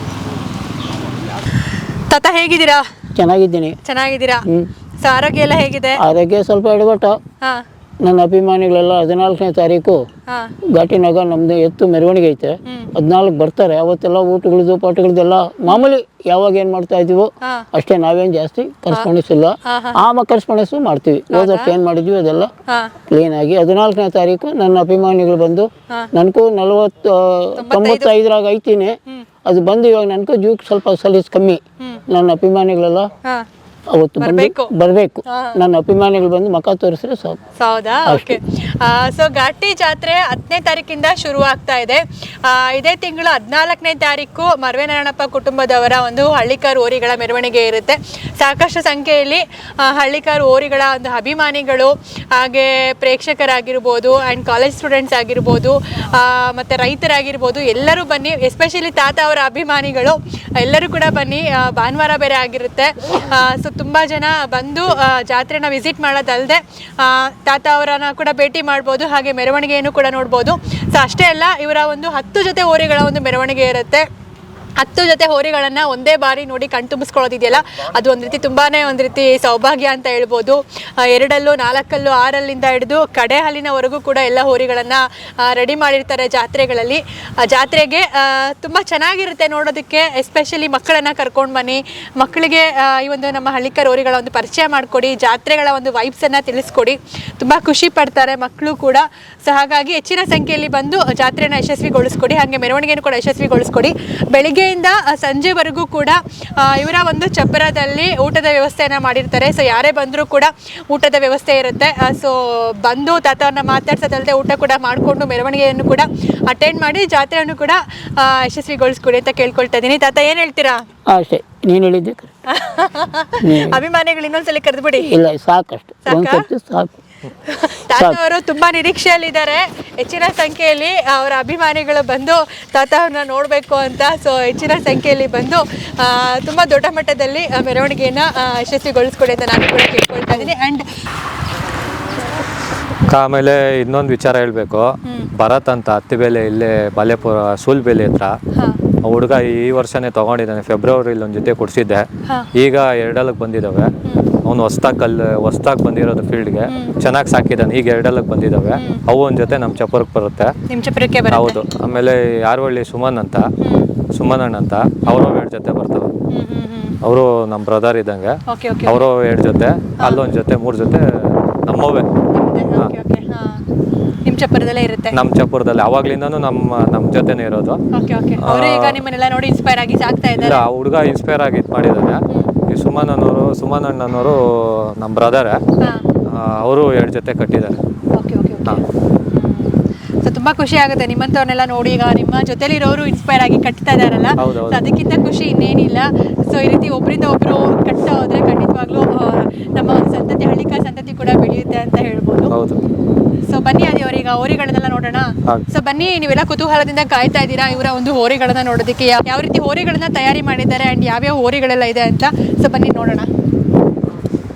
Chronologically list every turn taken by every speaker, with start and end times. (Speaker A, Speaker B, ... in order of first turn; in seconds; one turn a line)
Speaker A: 2.1-2.9
Speaker B: 3.2-3.8
Speaker A: 3.8-4.5
Speaker A: 5.0-6.0
Speaker B: 6.0-7.2
Speaker B: 8.0-10.0
Speaker A: 10.3-10.5
Speaker B: 10.7-22.5
Speaker A: 12.7-12.9
Speaker A: 15.7-15.9
Speaker A: 17.4-17.7
Speaker A: 19.6-20.0
Speaker A: 21.3-21.8
Speaker A: 22.7-22.9
Speaker B: 23.1-33.1
Speaker A: 27.6-28.1
Speaker B: 33.9-37.4
Speaker A: 34.2-34.7
Speaker A: 35.2-35.6
Speaker A: 37.6-74.1
Speaker B: 38.1-38.4
Speaker A: 74.8-120.8
Speaker B: 121.1-122.3
Speaker A: 122.5-125.1
Speaker B: 123.4-123.8
Speaker B: 125.0-126.9
Speaker A: 126.1-126.5
Speaker A: 127.4-140.9
Speaker C: 143.1-148.3
Speaker A: 145.1-145.3
Speaker A: 148.5-148.8
Speaker C: 149.0-153.9
Speaker A: 154.1-154.3
Speaker C: 154.4-160.6
Speaker A: 156.7-157.0
Speaker A: 158.8-159.0
Speaker A: 160.7-161.6
Speaker C: 161.3-163.5
Speaker A: 163.6-163.9
Speaker C: 164.1-166.1
Speaker A: 166.3-167.0
Speaker C: 167.0-172.1
Speaker A: 168.5-169.0
Speaker A: 172.3-173.6
Speaker A: 174.2-175.2
Speaker C: 175.1-177.8
Speaker A: 177.9-180.6
Speaker C: 178.4-179.0
Speaker C: 180.4-185.6
Speaker A: 185.8-186.1
Speaker C: 186.3-187.8
Speaker A: 188.1-202.6
Speaker C: 194.4-194.8
Speaker C: 202.5-202.8
Speaker A: 203.5-213.3